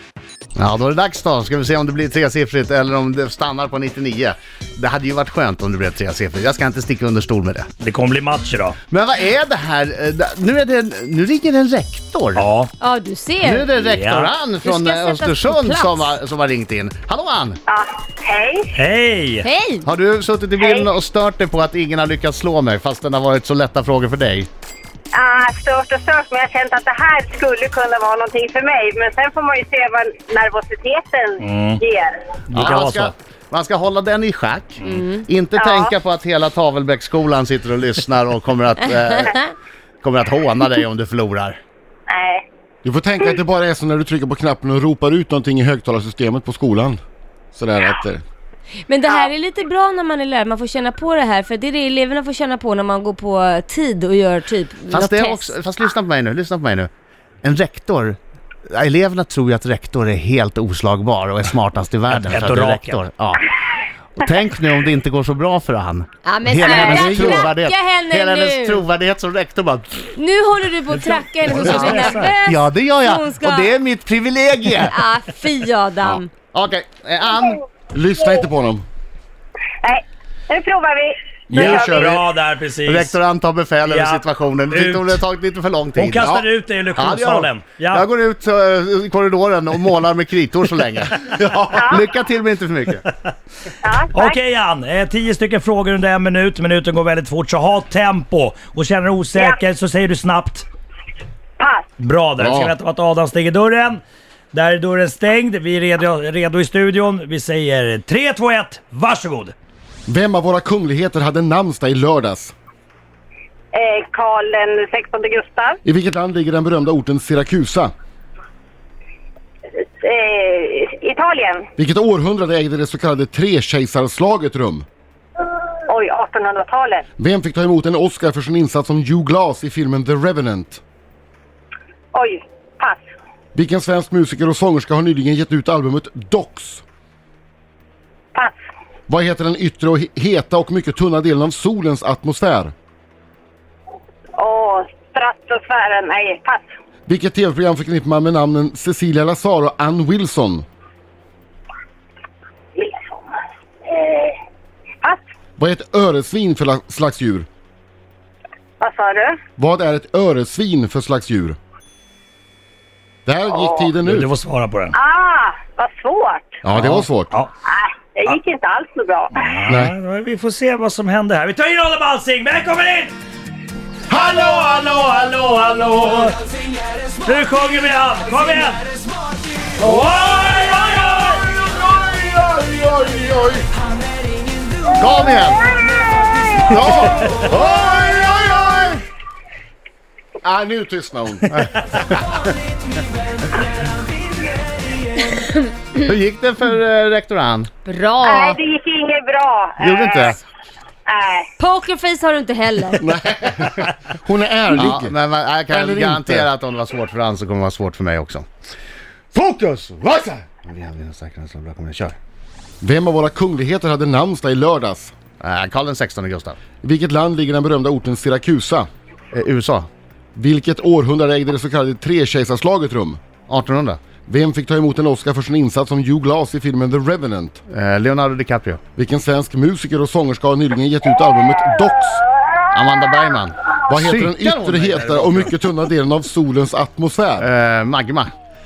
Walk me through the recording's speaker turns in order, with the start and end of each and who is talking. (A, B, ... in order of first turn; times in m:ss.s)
0:00.6-0:07.7 A
0:07.8-0:08.8 B
0:08.9-0:12.5 A
0:12.4-0:12.7 B
0:12.8-0:13.7 C
0:13.4-0:17.6 A
0:13.8-0:14.3 B
0:14.6-0:16.1 C
0:17.7-0:18.7 D
0:18.7-0:19.5 B
0:19.4-0:19.9 C
0:19.8-0:24.5 A
0:20.6-0:20.9 D
0:25.1-0:32.2 D
0:31.4-0:31.8 B
0:32.5-0:33.1 B
0:32.5-0:39.4 A
0:34.8-0:35.3 C
0:35.6-0:35.9 D
0:40.0-0:41.6 A
0:42.1-0:42.4 D
0:42.8-0:47.0 E
0:47.5-0:48.2 E
0:48.9-0:55.5 C
0:54.9-0:56.9 A
0:57.4-1:03.5 A
1:02.1-1:03.0 B
1:04.2-1:10.1 A
1:06.2-1:08.8 C
1:06.6-1:07.1 D
1:06.8-1:07.5 E
1:10.2-1:13.8 C
1:11.4-1:12.4 B
1:12.4-1:15.0 A
1:14.8-1:16.3 C
1:16.5-1:17.6 A
1:17.9-1:18.8 E
1:19.8-1:22.0 D
1:21.5-1:22.2 E
1:21.5-1:23.2 B
1:22.8-1:26.3 A
1:23.9-1:25.2 B
1:26.0-1:28.0 B
1:26.2-1:26.5 E
1:27.0-1:31.2 A
1:31.2-1:32.0 E
1:31.8-1:32.0 D
1:31.9-1:33.1 A
1:33.8-1:34.4 D
1:34.1-1:40.7 B
1:41.6-1:41.9 D
1:42.0-1:44.0 B
1:42.4-1:42.7 E
1:44.5-1:49.5 B
1:50.1-1:52.5 E
1:53.7-1:55.8 D
1:55.8-1:57.9 E
2:00.0-2:01.7 D
2:01.8-2:04.8 E
2:05.9-2:07.0 D
2:07.2-2:10.8 E
2:12.1-2:13.0 D
2:13.6-2:16.8 E
2:19.1-2:22.7 E
2:24.4-2:26.7 D
2:27.1-2:30.6 E
2:32.8-2:33.2 D
2:33.9-2:34.3 D
2:35.6-2:37.5 E
2:38.8-2:39.4 D
2:39.6-2:41.6 E
2:43.3-2:44.3 E
2:43.5-2:43.9 D
2:44.0-2:45.0 B
2:44.9-2:46.6 D
2:46.6-2:47.3 E
2:46.7-2:47.5 B
2:47.7-2:49.4 D
2:49.4-2:53.2 B
2:49.7-2:49.9 E
2:54.1-2:56.4 B
2:57.2-2:58.9 B
2:59.8-3:01.4 B
3:00.8-3:03.7 E
3:05.0-3:05.7 A
3:06.7-3:09.0 A
3:06.8-3:07.2 E
3:10.4-3:11.7 E
3:16.0-3:17.7 A
3:17.8-3:18.6 C
3:18.2-3:20.4 D
3:19.8-3:20.4 A
3:21.1-3:21.5 D
3:21.6-3:23.0 C
3:23.0-3:25.2 E
3:24.7-3:28.5 A
3:25.7-3:26.5 E
3:29.3-3:32.2 A
3:32.8-3:35.1 E
3:35.4-3:36.6 A
3:36.8-3:38.9 E
3:39.3-3:39.9 A
3:40.4-3:43.2 E
3:43.5-3:44.0 A
3:44.3-3:47.6 E
3:47.7-3:48.8 A
3:49.0-3:52.2 E
3:52.7-3:55.5 A
3:53.9-3:57.5 E
3:57.4-3:58.3 A